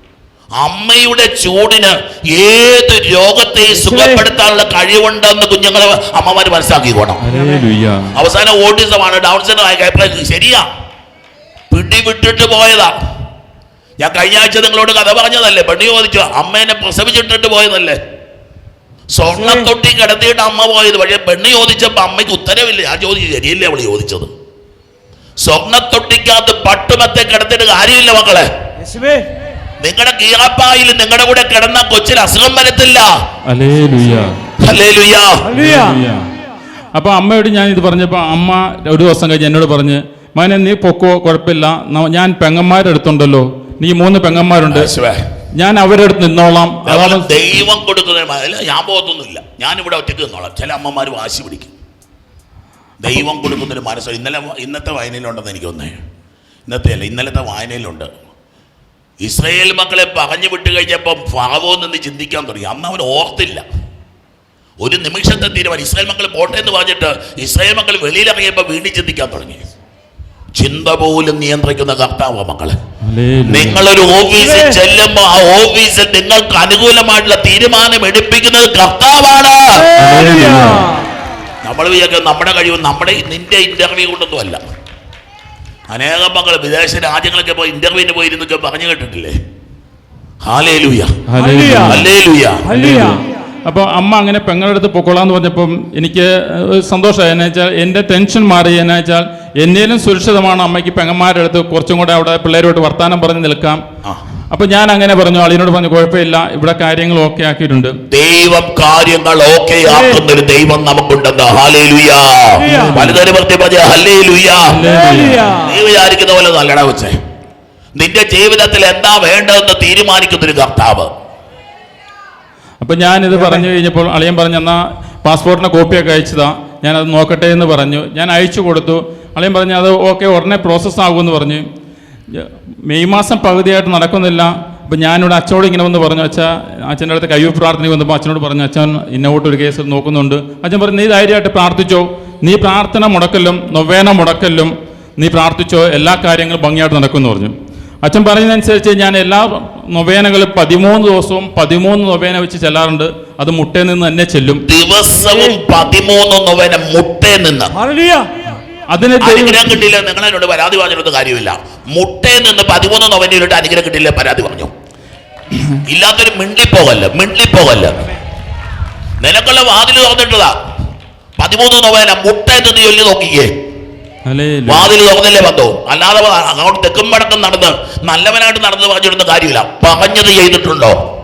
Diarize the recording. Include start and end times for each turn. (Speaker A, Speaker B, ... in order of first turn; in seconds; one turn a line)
Speaker A: 0.6-7.2
Speaker B: 3.8-4.2
Speaker C: 7.2-8.1
Speaker A: 8.1-10.7
Speaker A: 11.7-12.9
Speaker A: 14.0-18.0
Speaker A: 19.1-24.3
Speaker A: 25.4-28.5
Speaker B: 28.8-29.3
Speaker A: 29.8-33.1
Speaker C: 33.5-34.4
Speaker A: 34.6-35.6
Speaker C: 35.5-36.3
Speaker C: 36.9-44.9
Speaker A: 44.7-45.2
Speaker C: 45.5-47.5
Speaker A: 46.9-51.7
Speaker A: 53.0-56.0
Speaker A: 56.7-58.1
Speaker A: 59.2-63.6
Speaker A: 64.8-69.6
Speaker A: 70.5-72.8
Speaker C: 73.0-73.8
Speaker A: 73.5-80.0
Speaker C: 80.0-80.9
Speaker B: 80.1-80.9
Speaker A: 81.6-84.6
Speaker A: 85.9-89.3
Speaker A: 90.4-91.2
Speaker C: 91.3-92.1
Speaker B: 91.4-92.0
Speaker A: 91.8-92.7
Speaker C: 92.7-103.8
Speaker B: 92.7-93.2
Speaker C: 104.5-107.9
Speaker A: 108.1-114.7
Speaker C: 112.6-113.2
Speaker C: 114.7-115.6
Speaker B: 115.1-115.6
Speaker A: 115.6-117.1
Speaker A: 118.0-121.1
Speaker C: 122.8-131.6
Speaker C: 132.3-154.6
Speaker A: 154.7-157.7
Speaker B: 157.8-158.3
Speaker C: 158.9-159.8
Speaker A: 159.2-164.7
Speaker A: 165.9-168.0
Speaker A: 169.2-170.6
Speaker A: 171.4-173.5
Speaker C: 174.2-174.9
Speaker A: 174.7-181.0